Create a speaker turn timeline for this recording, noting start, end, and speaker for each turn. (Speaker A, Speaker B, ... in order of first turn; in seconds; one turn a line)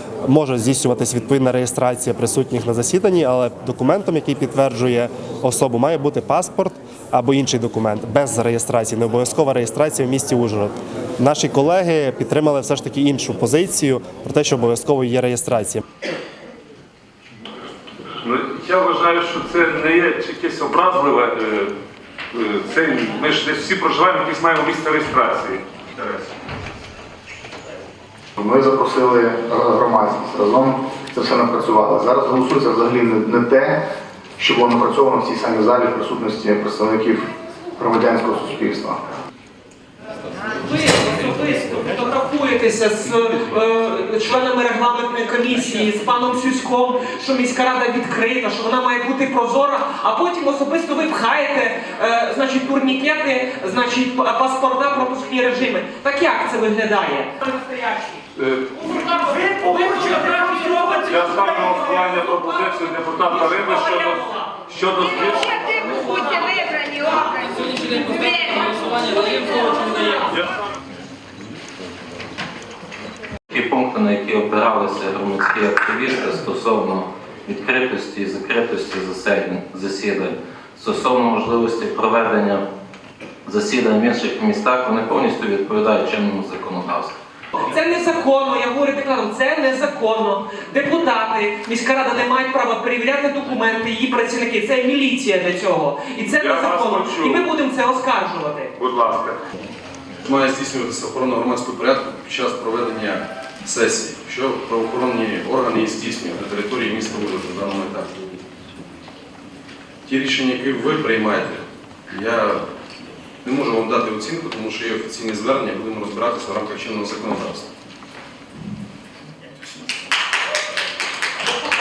Speaker A: 0.2-15.8
Speaker B: 18.2-21.7
Speaker B: 22.3-25.6
Speaker C: 28.4-33.8
Speaker C: 34.4-39.0
Speaker D: 40.5-62.0
Speaker B: 61.1-64.2
Speaker D: 63.3-64.6
Speaker B: 64.7-65.6
Speaker D: 66.1-66.5
Speaker D: 68.8-70.2
Speaker E: 73.5-82.6
Speaker E: 83.4-87.2
Speaker D: 87.6-98.7
Speaker B: 96.4-97.4
Speaker B: 98.8-99.4
Speaker F: 100.2-108.1
Speaker F: 110.0-112.6
Speaker F: 113.4-117.7